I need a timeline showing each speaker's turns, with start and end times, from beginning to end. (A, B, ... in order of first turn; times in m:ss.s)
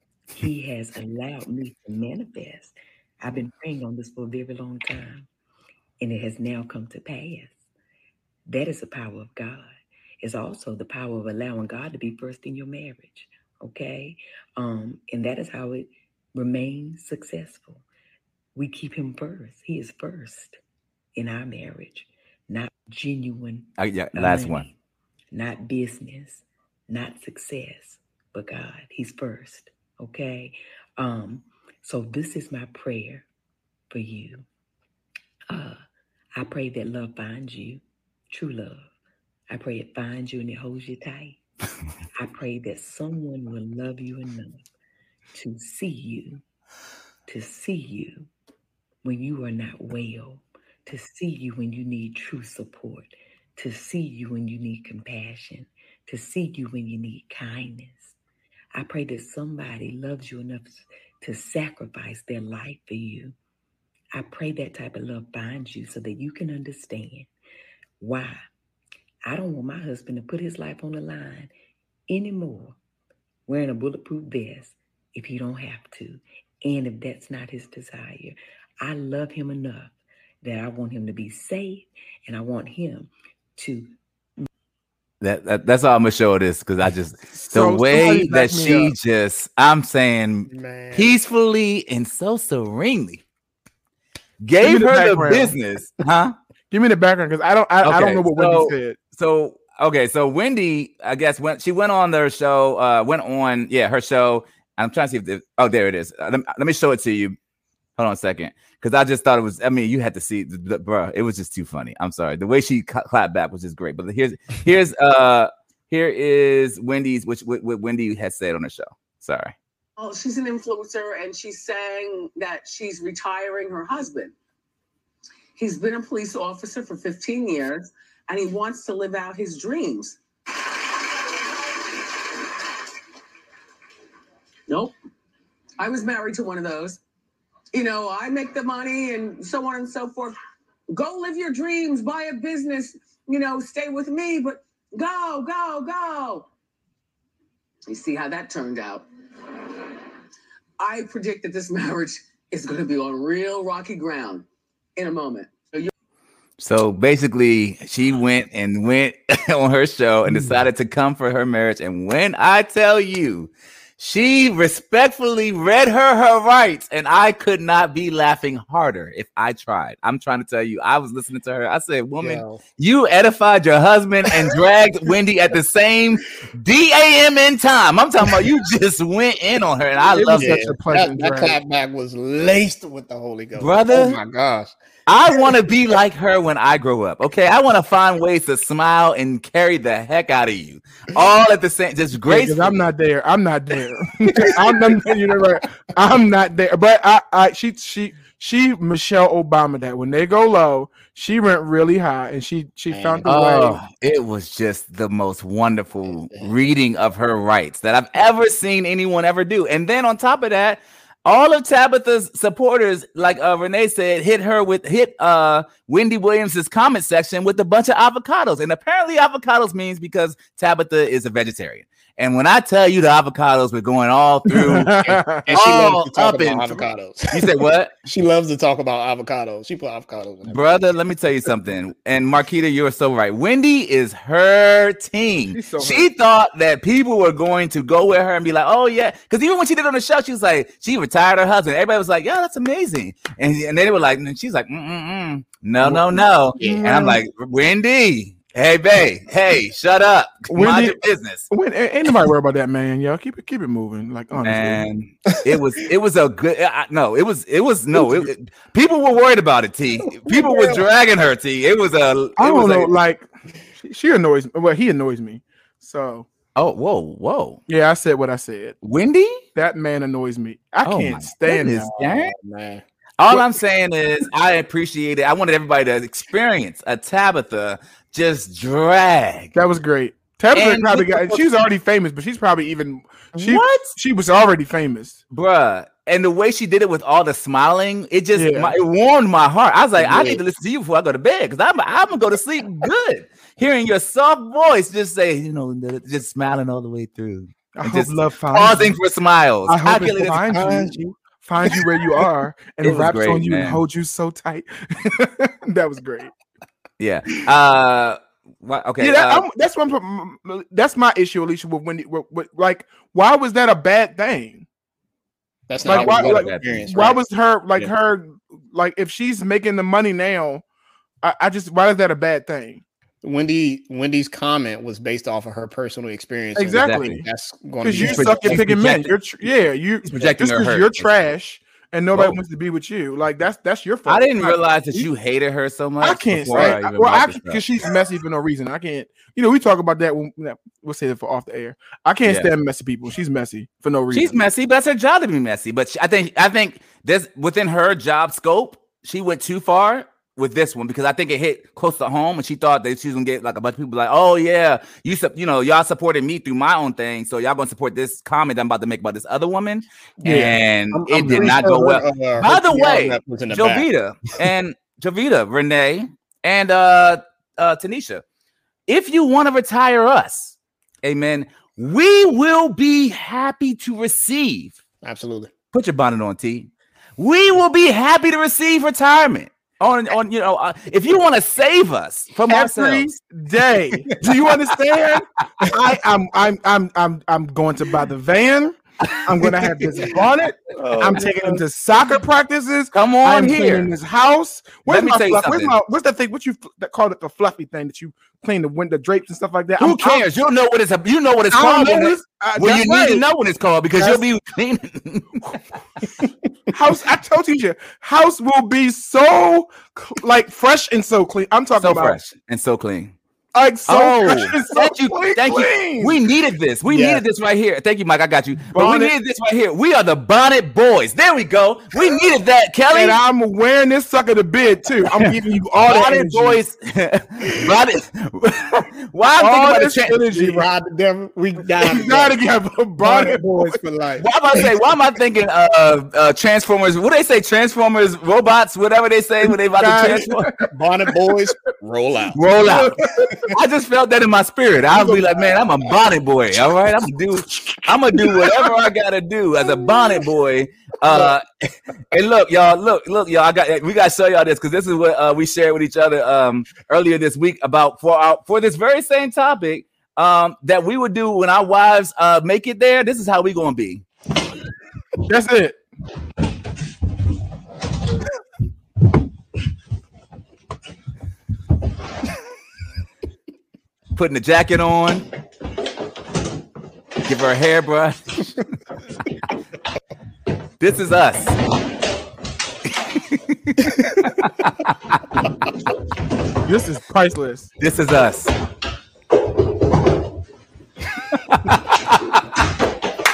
0:00.4-0:05.3 A
0:06.0-0:07.6 A
0:08.5-0:17.8 A
0:18.5-0:20.6 A
0:21.2-0:24.7 A
0:23.8-0:24.7 B
0:25.3-0:33.2 A
0:33.9-0:34.4 A
0:35.5-0:35.8 A
0:36.4-0:38.9 A
0:39.5-0:41.4 A
0:42.2-0:44.6 A
0:45.3-0:46.4 A
0:47.3-0:48.3 A
0:49.0-0:58.1 A
0:58.7-1:03.3 A
1:04.1-1:07.3 A
1:08.0-1:08.4 A
1:09.2-1:11.5 A
1:12.1-1:12.8 A
1:13.5-1:23.9 A
1:25.2-1:33.2 B
1:27.3-1:28.9 C
1:30.5-1:31.1 D
1:34.4-1:36.3 B
1:34.6-1:35.5 C
1:36.7-1:39.0 C
1:37.8-1:47.4 B
1:48.0-1:59.5 B
2:00.0-2:04.3 E
2:05.6-2:10.2 E
2:14.7-2:14.9 E
2:15.8-2:17.0 E
2:17.7-2:20.4 E
2:20.9-2:26.5 E
2:27.9-2:29.0 E
2:30.8-2:34.4 E
2:35.0-2:35.9 E
2:36.6-3:00.6 B
2:52.2-2:52.6 D
3:00.1-3:01.6 C
3:00.3-3:04.7 D
3:03.6-3:04.2 B
3:05.1-3:12.8 B
3:12.2-3:23.8 C
3:14.3-3:15.6 D
3:22.9-3:23.5 D
3:23.2-3:47.9 B
3:26.0-3:26.5 D
3:44.5-3:45.5 C
3:45.1-3:47.5 D
3:48.0-3:50.7 D
3:50.5-4:11.4 B
3:55.5-3:56.1 C
4:05.8-4:07.2 C
4:06.6-4:06.9 D
4:10.5-4:11.0 C
4:11.5-4:14.8 C
4:14.4-4:22.9 B
4:20.0-4:20.8 D
4:22.4-4:23.3 C
4:23.8-4:26.3 C
4:26.6-4:27.6 B
4:27.7-4:28.8 C
4:28.8-4:29.4 B
4:29.5-4:31.9 C
4:30.8-4:32.3 B
4:31.6-4:32.8 D
4:33.2-4:39.5 B
4:39.5-4:45.2 C
4:40.5-4:41.4 B
4:43.3-4:43.9 B
4:45.3-5:00.8 B
4:48.3-4:48.8 C
4:50.0-4:50.4 D
4:57.7-4:59.0 C
4:59.7-5:06.3 C
5:00.7-5:00.9 D
5:02.8-5:03.8 B
5:07.0-5:09.4 B
5:09.0-5:14.6 C
5:15.7-5:17.2 D
5:15.8-5:16.6 B
5:15.8-5:20.6 C
5:21.2-5:22.8 C
5:23.2-5:28.6 D
5:26.5-5:27.2 C
5:26.8-5:27.2 B
5:27.8-5:35.1 C
5:28.0-5:29.5 B
5:30.0-5:31.3 B
5:32.1-5:32.4 B
5:34.1-5:37.6 B
5:36.0-5:44.4 C
5:36.5-5:36.8 D
5:44.1-6:08.2 B
6:00.2-6:03.9 D
6:08.9-6:14.8 B
6:15.0-6:15.5 D
6:15.7-6:23.1 B
6:22.5-6:40.2 C
6:30.8-6:31.6 D
6:32.9-6:33.9 B
6:34.8-6:35.7 B
6:39.8-6:45.4 B
6:41.5-6:43.2 C
6:44.0-6:44.2 C
6:46.7-6:52.2 C
6:51.8-6:53.1 B
6:53.5-6:56.2 C
6:53.9-7:03.2 B
6:56.8-6:57.2 D
6:58.7-6:59.1 C
7:02.9-7:06.6 C
7:05.8-7:10.2 B
7:09.4-7:10.7 C
7:10.3-7:12.4 D
7:11.8-7:13.8 C
7:13.0-7:14.6 D
7:14.2-7:20.5 B
7:19.7-7:20.7 C
7:20.6-7:22.4 D
7:22.3-7:23.0 B
7:22.6-7:23.5 C
7:23.5-7:31.4 B
7:24.9-7:25.5 C
7:27.5-7:28.7 C
7:32.1-7:44.0 B
7:45.2-7:45.8 C
7:54.1-7:55.2 B
7:57.2-7:58.5 B
8:00.8-8:01.6 B
8:03.3-8:05.2 B
8:06.6-8:07.7 C
8:07.8-8:08.5 B
8:11.3-8:12.4 B